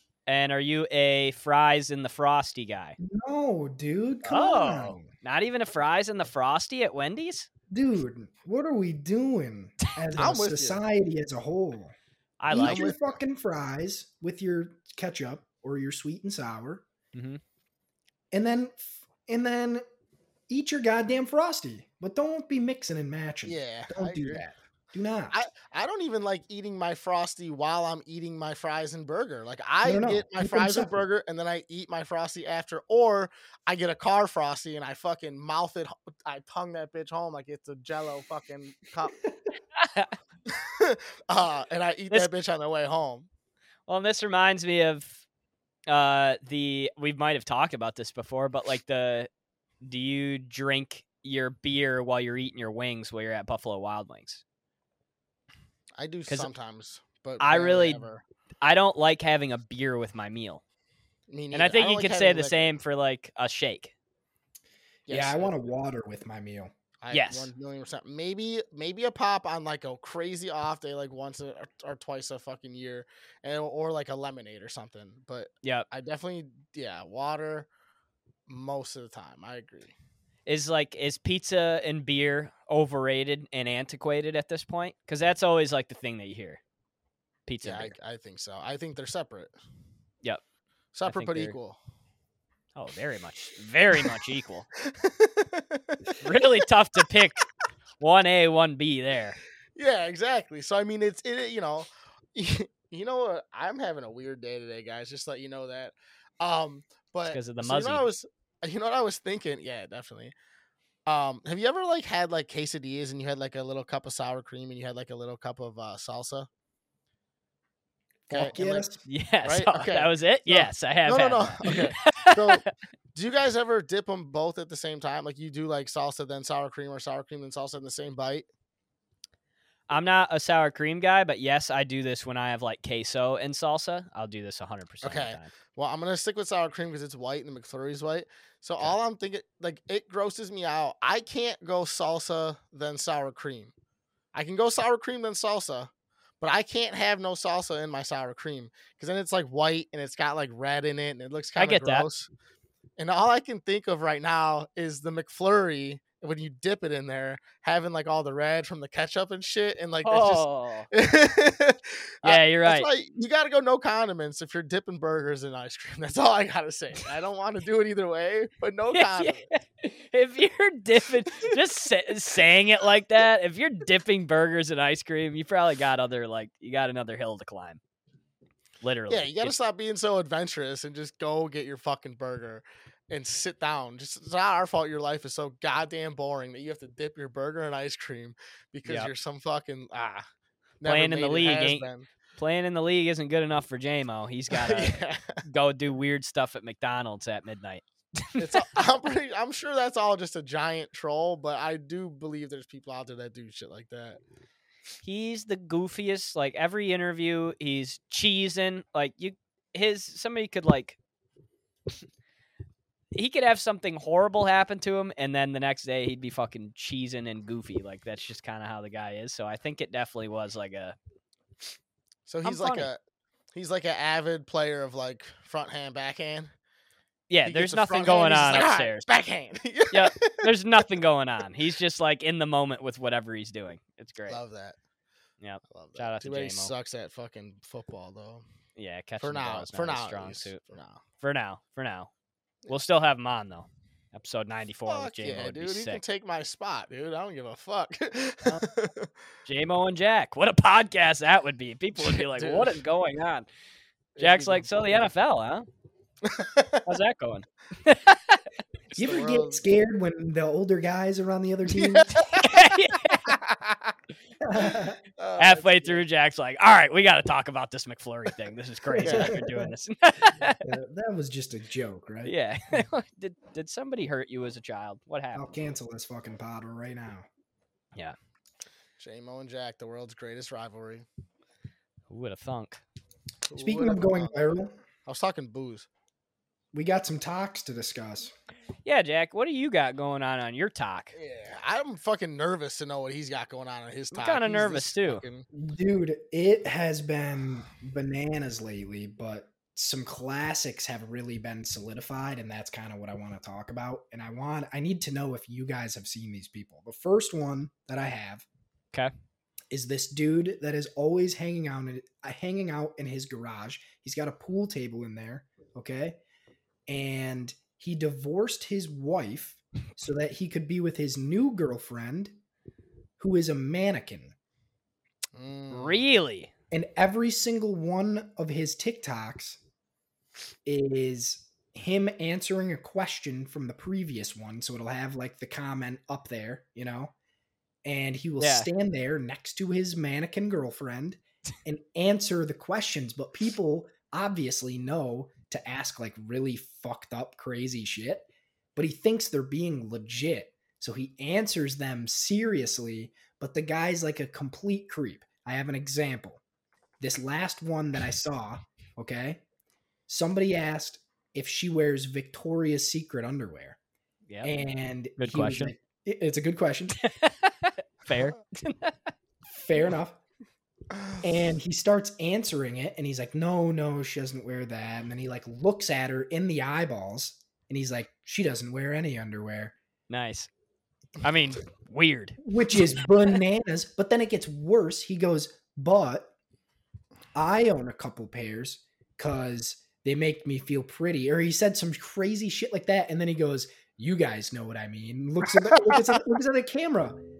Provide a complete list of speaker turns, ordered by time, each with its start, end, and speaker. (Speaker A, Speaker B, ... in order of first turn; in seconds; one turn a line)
Speaker A: 0.3-3.0
Speaker B: 3.0-5.1
Speaker A: 4.2-7.5
Speaker B: 7.7-11.9
Speaker C: 10.1-10.8
Speaker A: 12.4-12.8
Speaker B: 12.5-16.8
Speaker C: 12.5-13.2
Speaker A: 17.1-17.4
Speaker B: 18.3-19.8
Speaker B: 20.5-25.4
Speaker C: 23.4-24.4
Speaker C: 25.3-39.2
Speaker B: 29.8-31.0
Speaker A: 39.8-40.1
Speaker C: 40.5-43.3
Speaker A: 43.9-45.2
Speaker A: 45.9-49.3
Speaker A: 49.8-54.4
Speaker C: 56.0-58.2
Speaker A: 57.4-58.0
Speaker A: 58.6-60.6
Speaker C: 61.3-62.7
Speaker A: 61.5-63.9
Speaker C: 65.1-65.5
Speaker B: 65.1-66.7
Speaker C: 67.0-77.7
Speaker A: 67.1-67.5
Speaker C: 78.5-79.9
Speaker A: 80.5-86.6
Speaker A: 87.5-87.9
Speaker C: 87.6-89.5
Speaker C: 90.9-91.8
Speaker A: 91.0-91.5
Speaker A: 92.7-94.7
Speaker C: 94.8-96.2
Speaker A: 96.2-97.5
Speaker A: 98.0-99.4
Speaker C: 99.8-110.3
Speaker A: 107.3-108.0
Speaker C: 111.0-116.5
Speaker C: 118.3-128.4
Speaker B: 118.3-119.0
Speaker A: 119.0-122.7
Speaker A: 129.9-135.5
Speaker C: 135.0-143.7
Speaker C: 144.3-152.3
Speaker A: 151.6-152.1
Speaker C: 153.0-169.5
Speaker A: 160.0-160.9
Speaker A: 162.2-162.9
Speaker A: 168.9-177.8
Speaker A: 178.8-179.5
Speaker C: 179.1-190.2
Speaker A: 188.8-189.1
Speaker C: 190.8-192.1
Speaker A: 190.8-198.7
Speaker C: 194.5-195.4
Speaker C: 198.4-204.2
Speaker A: 205.0-211.0
Speaker A: 213.1-221.0
Speaker C: 222.2-223.0
Speaker A: 222.4-222.9
Speaker C: 223.5-226.5
Speaker A: 227.3-229.1
Speaker C: 227.4-230.5
Speaker A: 229.9-234.4
Speaker C: 234.3-234.8
Speaker A: 235.4-236.7
Speaker C: 235.7-238.4
Speaker A: 238.8-240.6
Speaker C: 239.2-241.0
Speaker A: 241.2-242.1
Speaker A: 242.7-246.0
Speaker C: 244.9-249.1
Speaker A: 249.4-253.4
Speaker C: 252.0-252.8
Speaker C: 254.2-254.9
Speaker A: 254.2-255.7
Speaker C: 256.2-256.8
Speaker A: 256.9-258.4
Speaker C: 258.9-259.6
Speaker B: 258.9-262.2
Speaker C: 261.7-262.7
Speaker A: 262.3-263.4
Speaker C: 263.2-263.9
Speaker B: 264.4-265.0
Speaker C: 264.7-266.0
Speaker A: 265.4-270.6
Speaker B: 268.9-269.7
Speaker C: 269.0-269.4
Speaker B: 270.6-272.9
Speaker A: 272.2-275.5
Speaker B: 275.3-277.3
Speaker C: 279.0-281.1
Speaker A: 282.1-282.8
Speaker C: 283.5-284.4
Speaker B: 283.6-284.7
Speaker C: 285.1-285.9
Speaker B: 286.7-288.3
Speaker A: 288.9-291.1
Speaker C: 291.1-295.5
Speaker A: 294.1-295.2
Speaker B: 295.5-308.4
Speaker B: 309.7-316.2
Speaker B: 316.9-322.4
Speaker B: 323.2-324.3
Speaker C: 325.3-326.0
Speaker A: 325.7-326.5
Speaker B: 326.7-329.6
Speaker B: 330.6-337.1
Speaker B: 337.8-356.4
Speaker A: 338.4-338.7
Speaker B: 357.0-359.4
Speaker B: 360.1-363.8
Speaker A: 364.3-364.6
Speaker B: 364.4-367.0
Speaker A: 365.2-365.7
Speaker A: 367.0-369.1
Speaker B: 369.5-370.2
Speaker C: 370.9-371.2
Speaker B: 371.2-379.7
Speaker A: 380.1-380.5
Speaker A: 381.2-383.3
Speaker B: 382.4-386.3
Speaker B: 387.3-397.2
Speaker C: 395.8-396.2